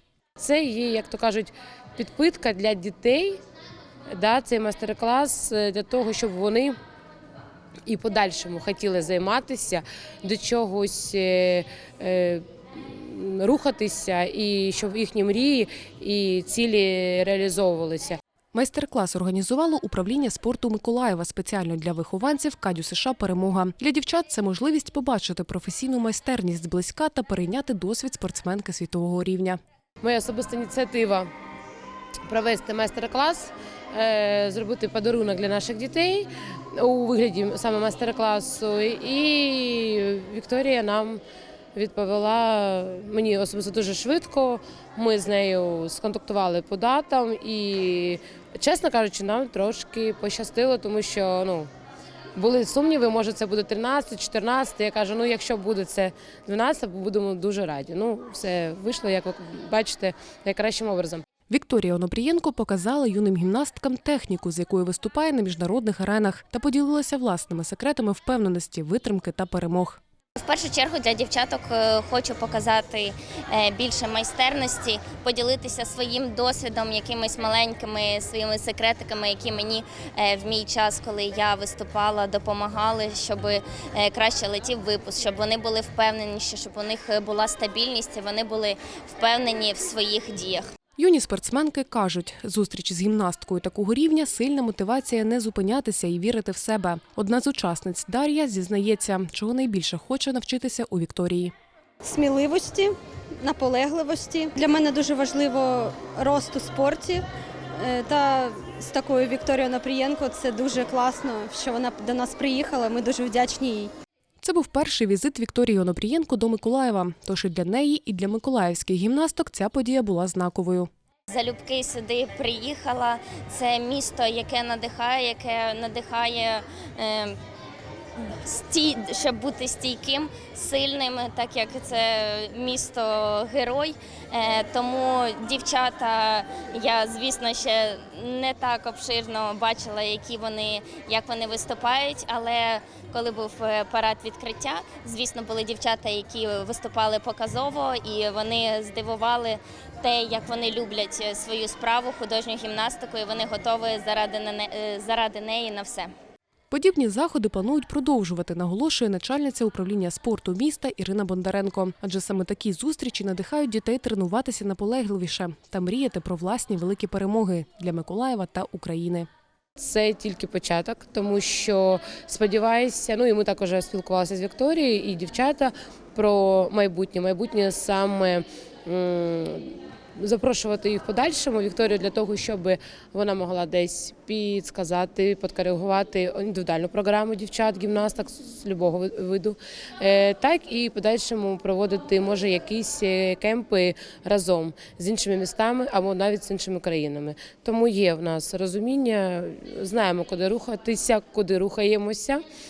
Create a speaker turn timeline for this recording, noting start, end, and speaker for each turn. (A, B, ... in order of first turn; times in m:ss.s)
0:00.4-0:03.4 A
0:04.1-0:06.8 A
0:07.8-0:18.2 A
0:18.5-0:29.6 B
0:30.0-0:31.3 A
0:32.3-0:41.2 A
0:41.7-0:51.7 A
0:52.4-1:01.2 A
1:01.5-1:10.0 B
1:10.4-1:30.7 C
1:31.0-1:41.5 B
1:42.0-1:47.2 D
1:47.8-1:53.9 D
1:54.4-2:00.9 B
2:01.3-2:07.4 C
2:08.2-2:36.1 C
2:36.7-2:49.3 B
2:49.8-3:22.4 A